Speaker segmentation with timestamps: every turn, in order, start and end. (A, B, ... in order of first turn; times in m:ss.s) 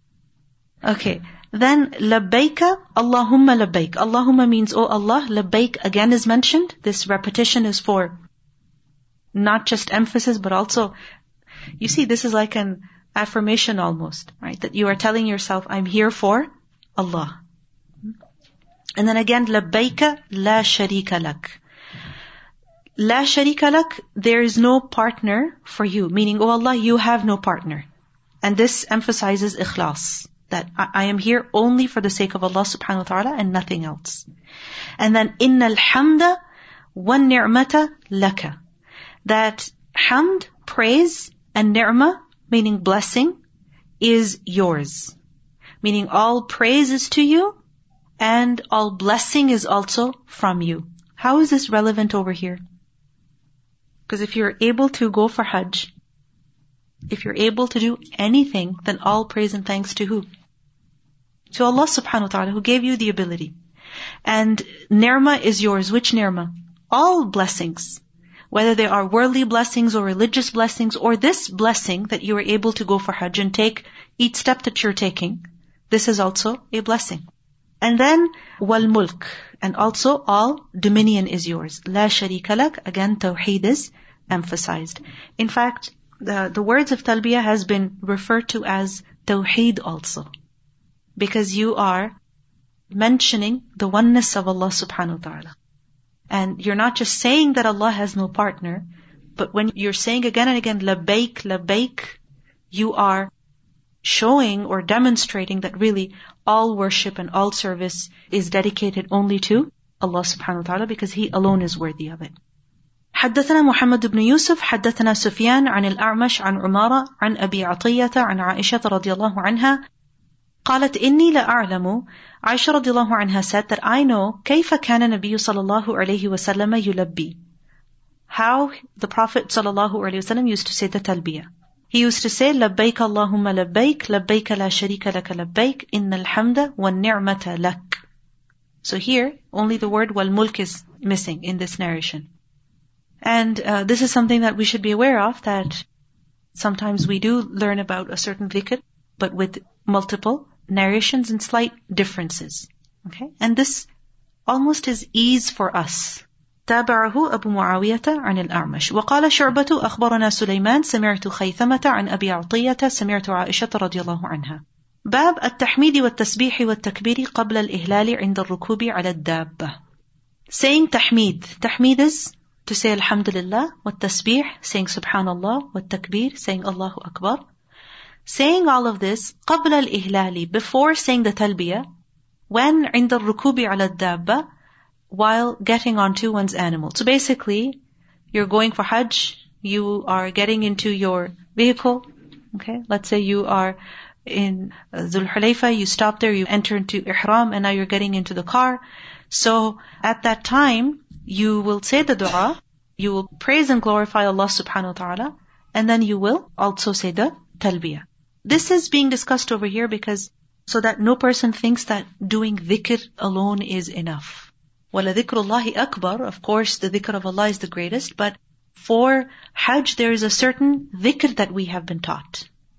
0:00.8-0:08.2 A
0:09.3-0:10.9 A
0:11.8-0:17.4 A
0:19.0-0:21.6 A
0:23.0-0:27.8 A
0:28.4-0:34.2 A
0:35.0-0:36.4 A
0:36.9-0:38.6 A
0:39.2-0:43.4 A
0:44.0-0:45.2 A
0:45.8-0:47.6 A
0:48.2-0:52.6 A
0:54.1-0:55.9 A
0:57.1-1:00.2 A
1:01.5-1:03.5 A
1:04.2-1:17.2 A
1:17.8-1:30.3 A
1:31.2-1:32.2 A
1:32.9-1:35.6 A
1:36.3-1:38.8 A
1:39.4-1:42.2 A
1:42.7-1:43.3 A
1:44.0-1:52.3 A
1:53.1-1:59.8 A
2:00.6-2:07.4 A
2:08.3-2:18.0 A
2:18.8-2:22.3 A
2:23.2-2:25.8 A
2:26.5-2:33.9 A
2:34.5-2:49.8 A
2:50.5-2:57.4 A
2:58.2-3:01.8 A
3:02.5-3:04.4 A
3:05.1-3:07.8 A
3:08.3-3:42.5 A